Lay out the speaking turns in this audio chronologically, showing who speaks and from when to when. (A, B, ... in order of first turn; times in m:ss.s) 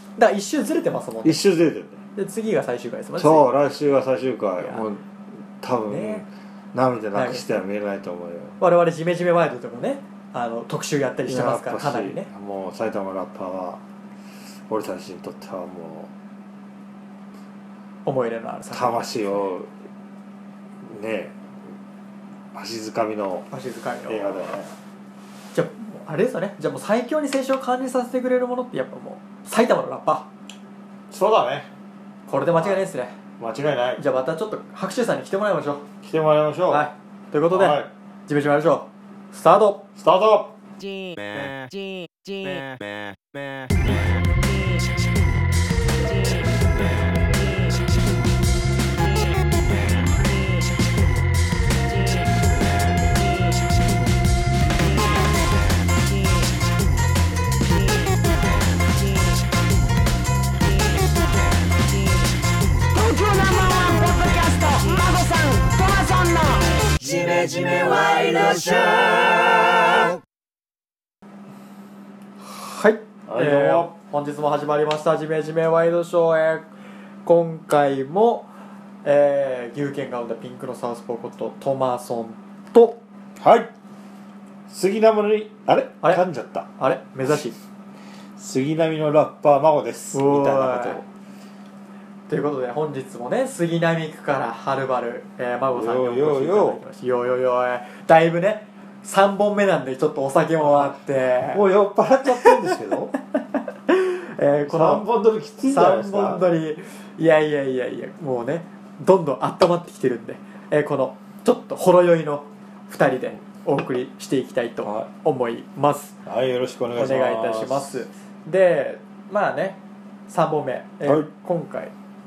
0:00.2-0:01.4 A
0:01.2-0:02.0 B
0:02.2-0:03.5 A
0:03.2-0:05.0 B
0:05.6-0:08.6 B
0:05.9-0:06.2 A
0:07.1-0:07.4 A
0:08.6-0:12.3 A
0:11.2-0:13.8 B
0:14.7-0:16.1 B
0:18.0-0:19.4 A
0:18.7-0:19.7 B
0:20.8-0:21.4 B
0:22.5-0:23.5 B
0:23.5-0:24.5 A
0:24.1-0:24.7 B
0:25.5-0:30.3 A
0:31.1-0:31.7 B
0:32.3-0:33.1 A
0:32.6-0:32.8 B
0:33.4-0:34.0 B
0:34.0-0:35.8 A
0:36.0-0:36.9 B
0:36.7-0:39.8 A
0:37.5-0:37.9 B
0:40.0-0:40.5 B
1:02.9-1:10.0 C
1:12.4-1:16.7 A
1:13.3-1:13.9 B
1:17.2-1:18.5 A
1:19.0-1:23.0 A
1:23.4-1:23.7 B
1:24.7-1:26.7 B
1:26.8-1:27.6 A
1:28.4-1:31.0 B
1:30.1-1:31.0 A
1:32.3-1:41.6 A
1:35.7-1:36.8 B
1:40.7-1:40.9 B
1:41.5-1:43.1 B
1:43.9-1:45.0 A
1:44.6-1:46.4 B
1:45.7-1:56.2 A
1:56.2-1:58.0 B
1:56.9-1:59.8 A
2:00.3-2:01.9 A